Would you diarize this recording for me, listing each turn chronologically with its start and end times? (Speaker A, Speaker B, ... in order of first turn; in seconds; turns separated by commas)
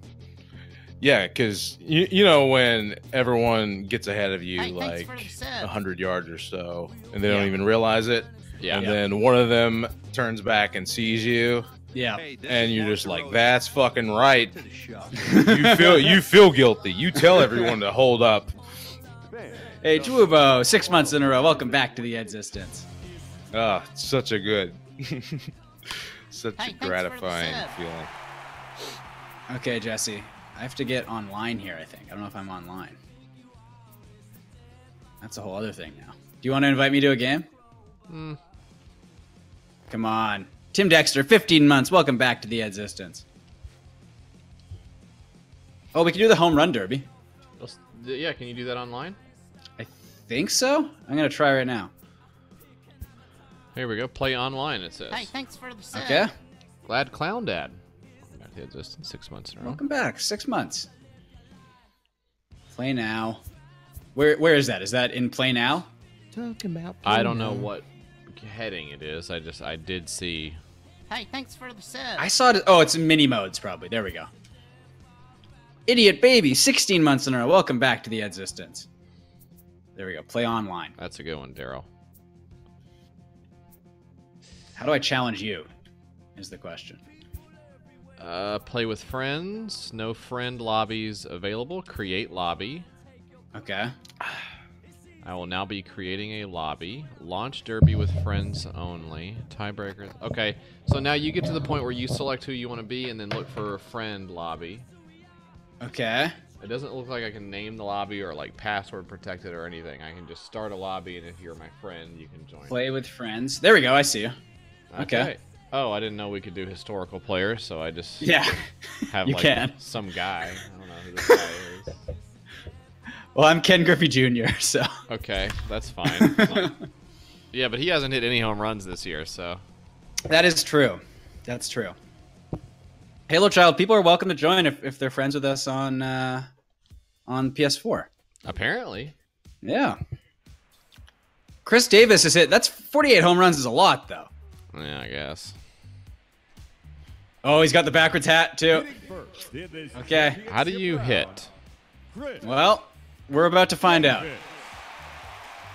Speaker A: 1.0-11.7, Speaker B: 4.6-5.7, Speaker C: 7.3-7.5, Speaker D: 8.6-8.9, Speaker C: 11.9-12.3, Speaker A: 12.4-14.7, Speaker C: 15.2-16.1, Speaker A: 15.2-18.6, Speaker C: 19.8-22.9, Speaker A: 23.5-28.1, Speaker B: 26.6-27.7, Speaker C: 29.5-33.0, Speaker C: 35.2-37.5, Speaker D: 38.1-38.4, Speaker C: 39.9-43.2, Speaker C: 45.9-47.1, Speaker D: 47.6-49.2, Speaker C: 49.8-51.9, Speaker D: 53.8-55.3, Speaker B: 55.1-56.3, Speaker C: 55.9-56.3, Speaker D: 56.9-57.8, Speaker D: 58.3-59.8, Speaker C: 59.6-60.9, Speaker C: 62.7-63.4, Speaker C: 64.2-65.9, Speaker A: 66.3-67.7, Speaker D: 67.0-70.6, Speaker B: 71.1-72.3, Speaker C: 72.2-74.3, Speaker C: 75.9-78.9, Speaker C: 80.0-81.0, Speaker D: 81.0-81.9, Speaker C: 84.8-85.7, Speaker C: 86.4-87.0, Speaker D: 88.2-92.9, Speaker C: 93.5-93.9, Speaker D: 95.2-104.9, Speaker C: 105.8-106.3, Speaker D: 106.6-112.7, Speaker C: 112.7-114.3, Speaker D: 114.9-118.5, Speaker C: 115.0-115.3, Speaker C: 118.2-119.8, Speaker D: 119.1-122.0, Speaker C: 123.3-124.9, Speaker D: 125.1-126.7, Speaker C: 126.1-126.8, Speaker D: 127.5-129.6, Speaker C: 130.3-131.9, Speaker C: 133.3-136.5, Speaker C: 137.3-138.1, Speaker D: 138.4-139.2, Speaker C: 139.6-140.0, Speaker C: 141.7-144.3, Speaker D: 144.7-145.6, Speaker C: 147.4-148.9, Speaker C: 149.9-150.4, Speaker D: 150.4-151.5, Speaker C: 152.4-154.3